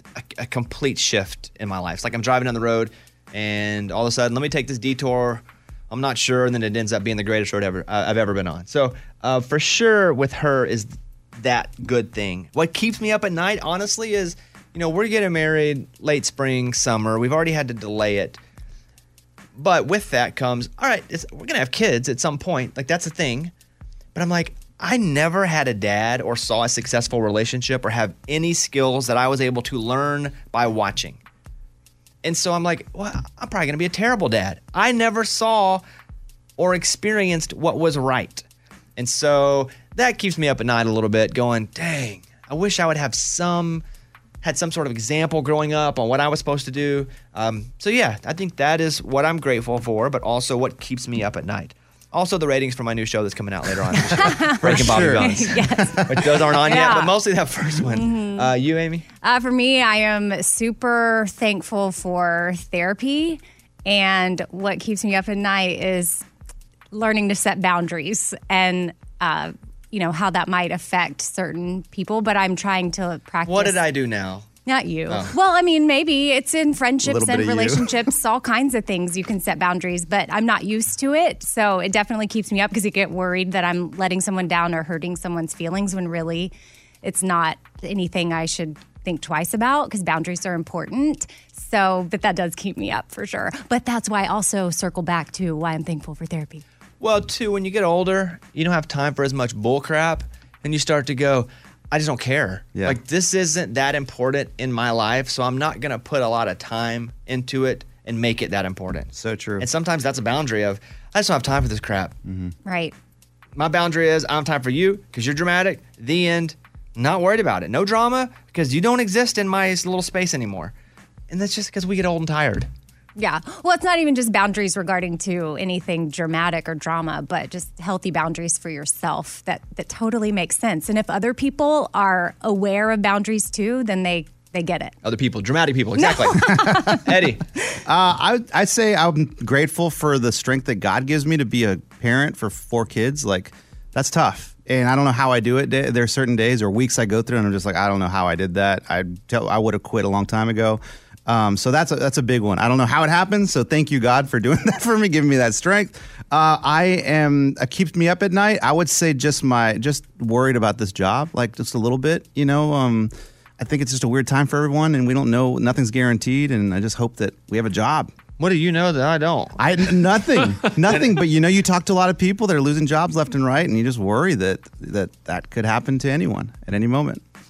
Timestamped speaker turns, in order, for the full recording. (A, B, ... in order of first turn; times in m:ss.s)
0:00.2-0:18.4 A
0:19.6-0:23.5 A
0:24.1-0:31.2 A
0:32.2-0:35.8 A
0:36.6-0:38.4 A
0:39.0-0:43.8 A
0:44.4-0:59.0 A
0:54.2-0:56.1 B
0:54.6-0:56.3 C
0:56.6-0:57.1 B
0:57.9-0:58.5 B
0:59.2-1:06.2 B
1:06.9-1:13.8 B
1:13.4-1:14.5 A
1:14.6-1:36.6 B
1:15.1-1:15.3 A
1:17.0-1:17.9 C
1:37.0-1:52.2 A
1:49.2-1:49.6 C
1:52.2-1:52.5 C
1:52.6-1:52.9 B
1:53.6-2:00.7 A
2:01.3-2:02.7 A
2:03.2-2:14.9 B
2:15.0-2:17.4 A
2:16.0-2:17.0 B
2:16.5-2:17.0 C
2:17.8-2:48.1 C
2:48.4-2:49.6 A
2:49.6-2:57.2 C